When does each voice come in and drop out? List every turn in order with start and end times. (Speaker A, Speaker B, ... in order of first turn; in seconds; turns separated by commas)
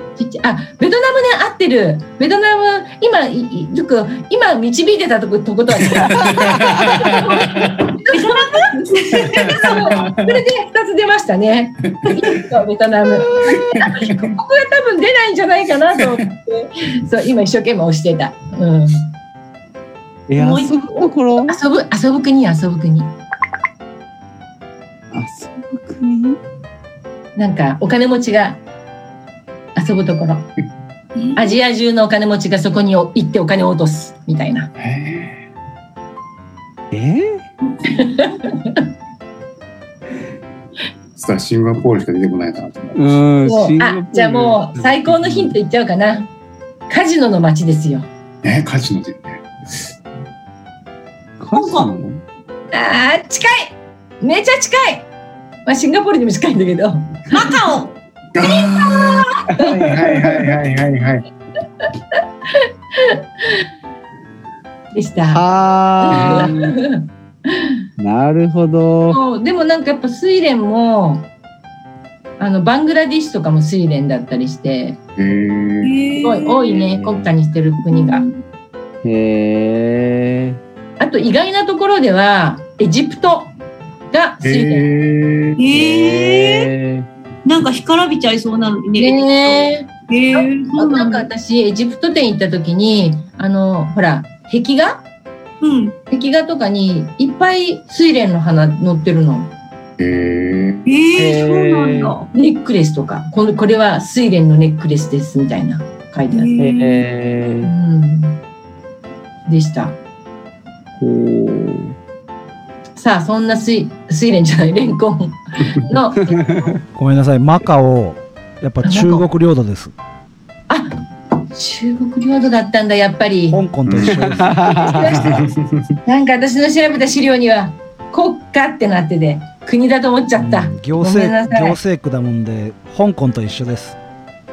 Speaker A: 0.2-19.1, Speaker B: 5.9-7.9, Speaker C: 6.3-6.8, Speaker D: 8.1-9.9, Speaker B: 9.1-10.4, Speaker C: 13.2-13.8, Speaker C: 20.3-21.6, Speaker D: 20.4-21.1, Speaker A: 21.4-23.1, Speaker C: 25.1-26.4, Speaker A: 27.4-28.6, Speaker A: 29.7-30.5, Speaker D: 31.1-31.6, Speaker A: 31.4-34.7, Speaker B: 34.8-35.4, Speaker C: 36.9-37.4, Speaker A: 37.7-38.9, Speaker B: 41.1-43.0, Speaker C: 42.9-45.3, Speaker A: 43.4-46.3, Speaker A: 46.9-48.1, Speaker B: 48.4-49.5, Speaker C: 51.4-52.2, Speaker D: 51.5-51.9, Speaker A: 52.7-55.1, Speaker A: 55.6-57.6, Speaker D: 57.3-59.5, Speaker B: 58.3-61.2, Speaker C: 59.5-60.0, Speaker A: 61.8-63.6, Speaker A: 64.9-65.4, Speaker C: 65.3-66.8, Speaker A: 66.0-67.8, Speaker B: 66.1-66.5, Speaker C: 68.0-69.2, Speaker A: 69.1-71.2, Speaker A: 72.4-75.0, Speaker B: 75.2-75.9, Speaker D: 75.8-76.8, Speaker A: 76.2-78.2, Speaker C: 76.8-77.3, Speaker D: 77.9-78.3, Speaker C: 79.0-80.6, Speaker A: 81.0-83.5, Speaker A: 84.1-84.9, Speaker B: 84.4-85.6, Speaker D: 85.6-86.7, Speaker C: 85.7-87.1, Speaker D: 87.4-91.3, Speaker A: 89.0-95.0, Speaker D: 95.6-95.9, Speaker A: 96.1-99.5, Speaker B: 100.0-100.8, Speaker D: 100.8-102.3, Speaker C: 101.1-102.2, Speaker A: 102.3-106.5, Speaker D: 106.3-107.0, Speaker C: 106.6-107.7, Speaker A: 107.6-108.4, Speaker A: 109.5-110.0, Speaker C: 111.0-111.9, Speaker A: 113.0-116.8, Speaker C: 116.2-116.8, Speaker E: 117.0-119.9, Speaker A: 118.8-119.3, Speaker A: 121.5-123.6, Speaker E: 123.5-124.7, Speaker B: 123.9-124.2, Speaker C: 124.0-125.4, Speaker A: 124.7-125.5, Speaker B: 125.2-125.9, Speaker A: 126.0-131.8, Speaker E: 130.4-134.0